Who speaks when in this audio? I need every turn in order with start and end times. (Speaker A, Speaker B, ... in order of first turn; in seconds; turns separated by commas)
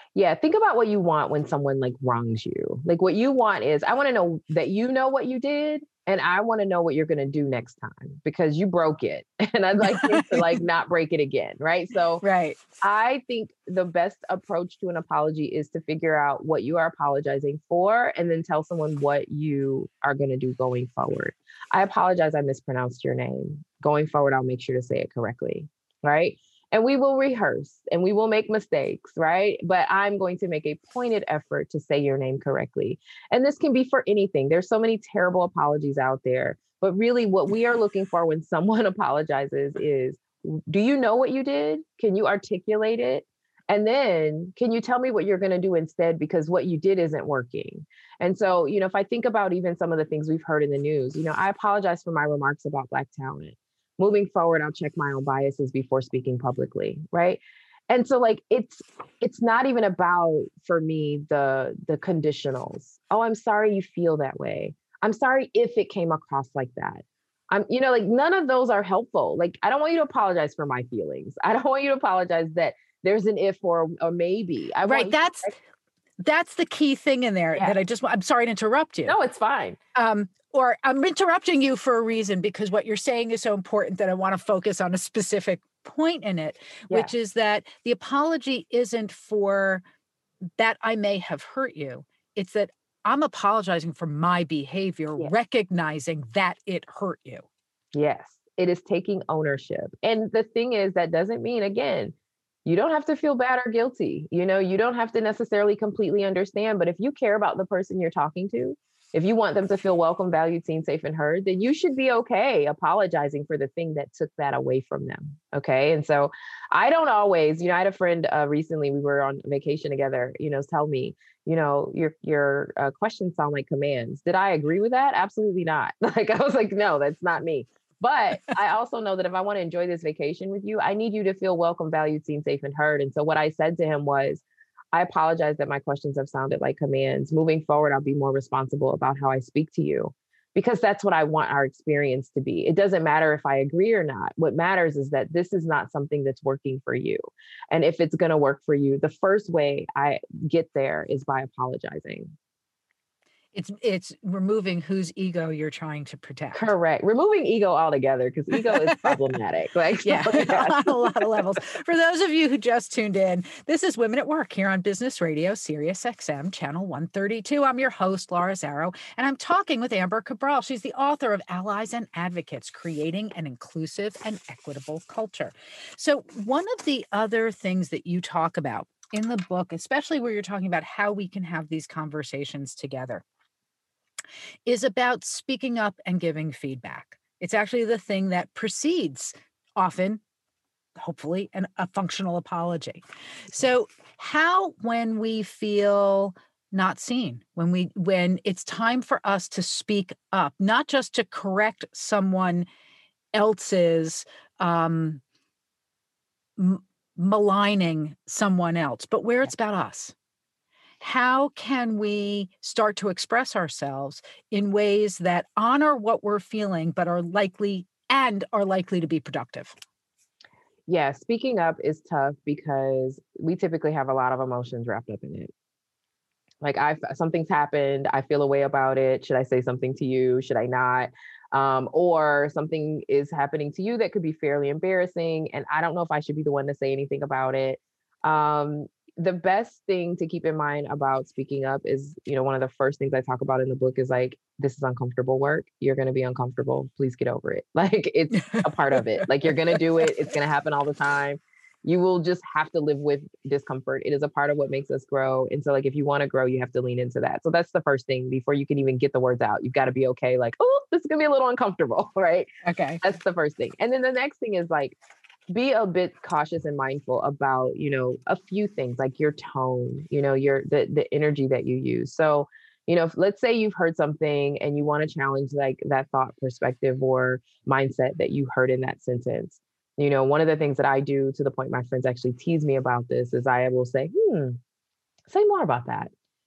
Speaker A: 0.1-12.2, Speaker B: 9.8-10.6, Speaker B: 12.2-12.6, Speaker A: 12.8-75.5, Speaker B: 74.8-75.5, Speaker B: 76.2-79.2, Speaker A: 79.1-79.8, Speaker B: 80.0-89.8, Speaker B: 90.6-97.5, Speaker A: 97.9-152.3, Speaker B: 153.5-156.7, Speaker A: 156.5-161.1, Speaker B: 158.6-159.1, Speaker B: 160.0-183.2, Speaker B: 184.7-190.2, Speaker B: 191.0-202.7, Speaker B: 203.3-205.2, Speaker B: 206.6-210.1, Speaker B: 211.0-219.8, Speaker A: 220.9-225.5, Speaker A: 226.6-262.5, Speaker B: 262.6-263.0, Speaker A: 263.0-265.0, Speaker A: 265.5-284.6, Speaker A: 285.3-286.1